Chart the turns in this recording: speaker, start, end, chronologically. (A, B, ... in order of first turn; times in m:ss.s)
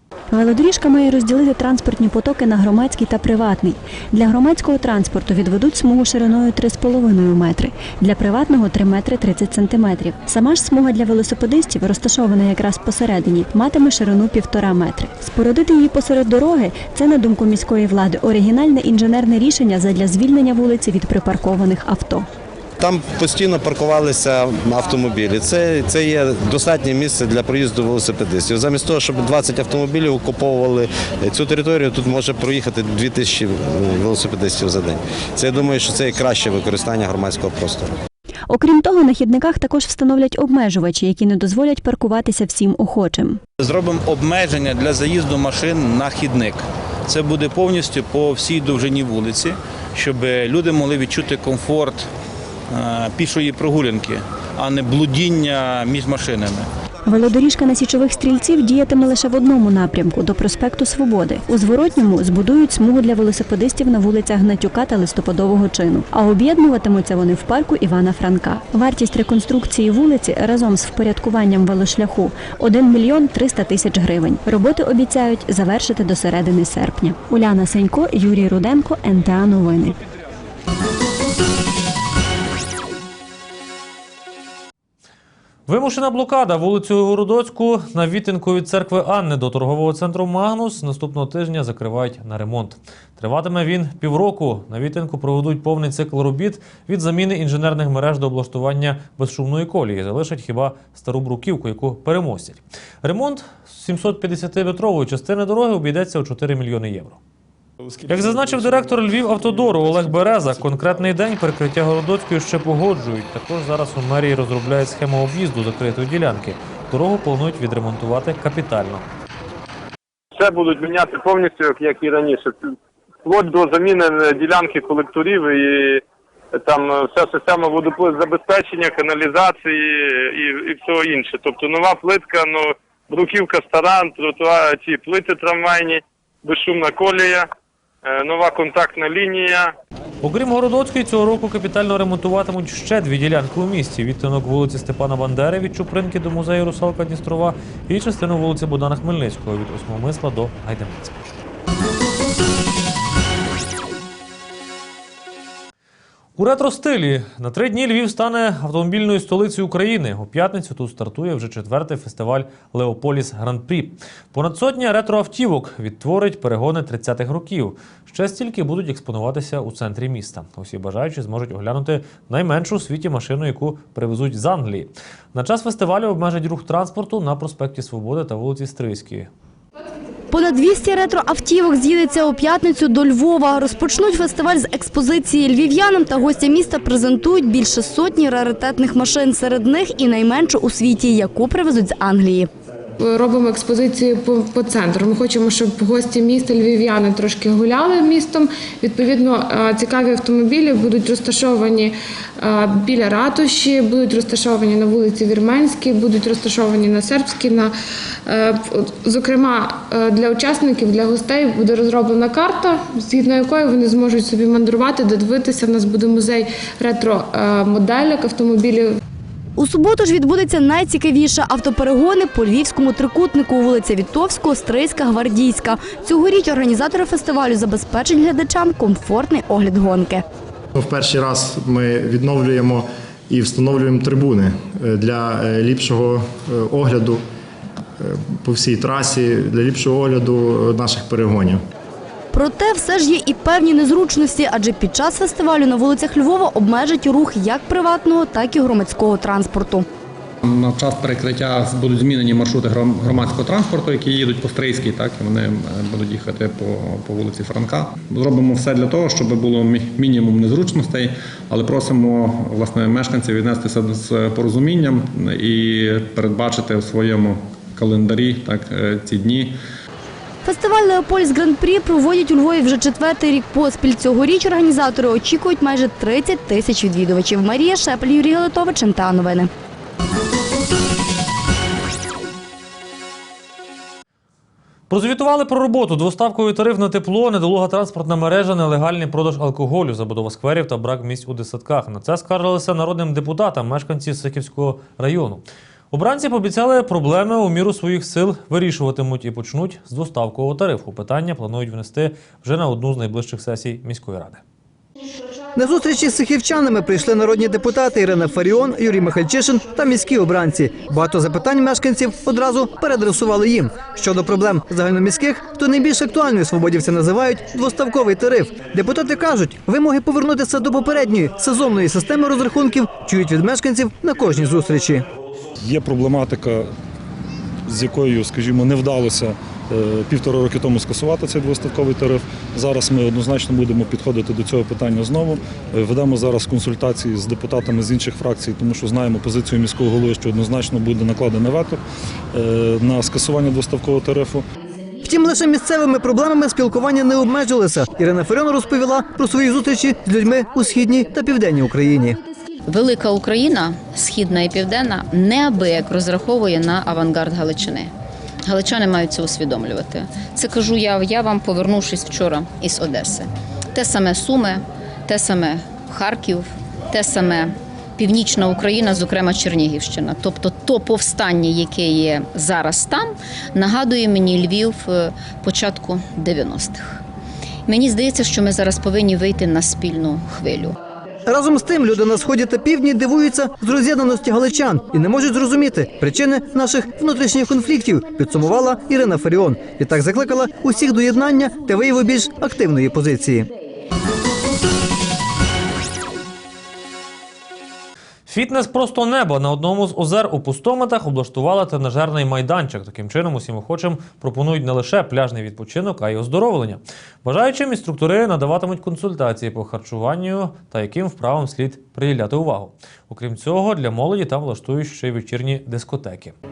0:00.3-0:22.2 A
0:22.8-0:37.9 B
0:38.5-0:43.4 A
0:43.6-0:52.0 C
0:52.7-0:56.7 C
0:57.1-1:20.0 A
1:25.7-1:47.2 D
1:48.1-1:59.1 D
2:00.4-2:02.7 E
2:03.2-2:06.0 E
2:06.6-2:17.4 E
2:18.0-2:19.7 E
2:20.2-2:31.2 D
2:36.4-2:59.3 D
3:00.3-3:12.5 F
3:13.0-3:21.9 G
3:22.4-3:27.7 G
3:28.3-3:39.0 G
3:39.6-3:50.2 F
3:50.7-3:57.2 H
3:58.0-4:01.6 H
4:02.3-4:09.8 F
4:10.4-4:29.5 I
4:30.4-4:39.5 F
4:44.9-5:04.4 D
5:05.5-5:25.1 J
5:25.6-5:26.6 K
5:27.7-5:41.8 K
5:42.3-5:44.4 K
5:45.0-5:52.2 J
5:52.7-5:57.9 L
5:58.4-6:17.0 L
6:17.7-6:20.7 L
6:21.2-6:33.5 J
6:38.3-6:56.3 D